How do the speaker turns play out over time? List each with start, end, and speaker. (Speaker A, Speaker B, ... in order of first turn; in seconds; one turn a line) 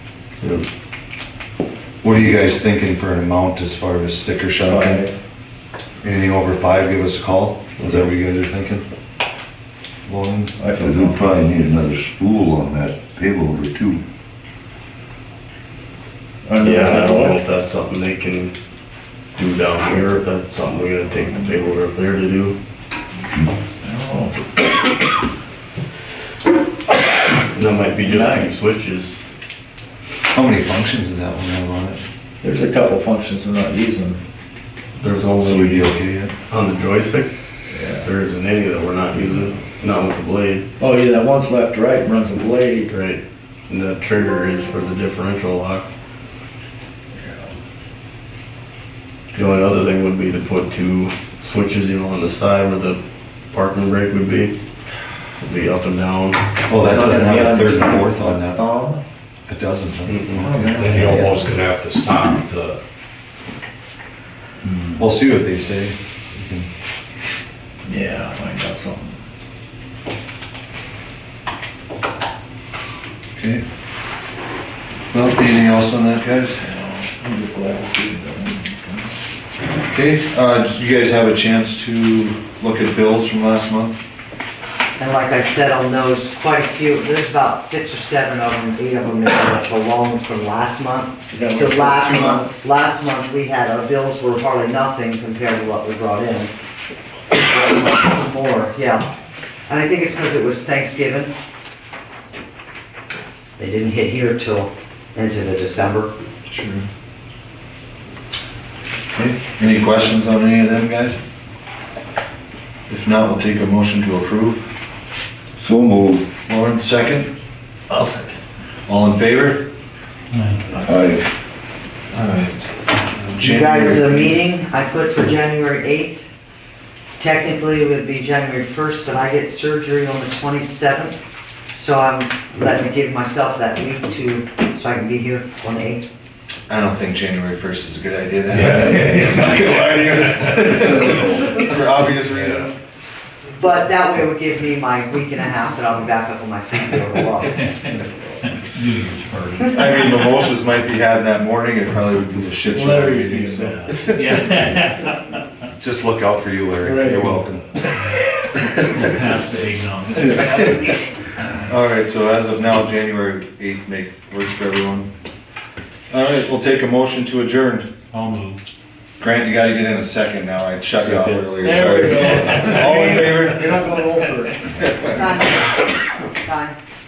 Speaker A: 2.0-5.0
Speaker B: 4.7-5.2
Speaker A: 6.0-8.8
Speaker A: 10.1-10.6
Speaker B: 10.6-11.3
Speaker C: 10.8-14.0
Speaker B: 16.4-17.4
Speaker D: 16.6-18.5
Speaker D: 19.3-22.6
Speaker B: 23.8-24.5
Speaker D: 27.5-29.2
Speaker B: 28.0-28.5
Speaker A: 30.3-32.0
Speaker B: 32.4-34.2
Speaker D: 35.0-37.3
Speaker A: 35.4-36.3
Speaker B: 37.7-38.1
Speaker D: 38.0-40.6
Speaker B: 40.8-42.9
Speaker D: 42.9-45.9
Speaker B: 47.2-47.5
Speaker D: 49.3-53.0
Speaker D: 53.5-54.5
Speaker D: 55.4-56.5
Speaker A: 56.6-58.7
Speaker B: 56.8-59.0
Speaker A: 59.5-60.9
Speaker D: 60.1-60.5
Speaker B: 60.4-61.5
Speaker E: 60.8-62.8
Speaker A: 65.0-66.7
Speaker B: 67.8-69.2
Speaker A: 73.3-73.6
Speaker A: 75.1-76.6
Speaker B: 76.6-79.1
Speaker A: 79.9-84.0
Speaker F: 85.0-96.5
Speaker B: 91.3-92.6
Speaker F: 97.3-99.1
Speaker F: 99.7-101.3
Speaker F: 103.6-106.1
Speaker A: 106.5-106.8
Speaker A: 109.1-111.2
Speaker A: 112.9-114.6
Speaker C: 115.5-116.3
Speaker A: 116.5-117.3
Speaker B: 117.9-118.4
Speaker A: 118.9-119.7
Speaker G: 120.3-120.6
Speaker C: 120.8-121.3
Speaker A: 122.2-122.5
Speaker A: 123.2-124.4
Speaker F: 123.3-126.2
Speaker F: 127.2-131.2
Speaker F: 131.7-136.0
Speaker A: 136.7-142.7
Speaker E: 138.5-140.6
Speaker B: 140.9-141.2
Speaker F: 143.6-147.7
Speaker B: 148.0-148.3
Speaker G: 148.5-150.3
Speaker A: 149.7-154.1
Speaker B: 152.7-154.1
Speaker G: 154.1-155.4
Speaker A: 155.8-157.8
Speaker B: 156.8-157.4
Speaker G: 158.9-161.0
Speaker A: 160.2-160.9
Speaker A: 161.7-165.1
Speaker A: 166.1-167.9
Speaker G: 168.1-168.6
Speaker A: 169.2-173.7
Speaker B: 171.0-175.2
Speaker G: 171.7-172.9
Speaker F: 175.0-176.8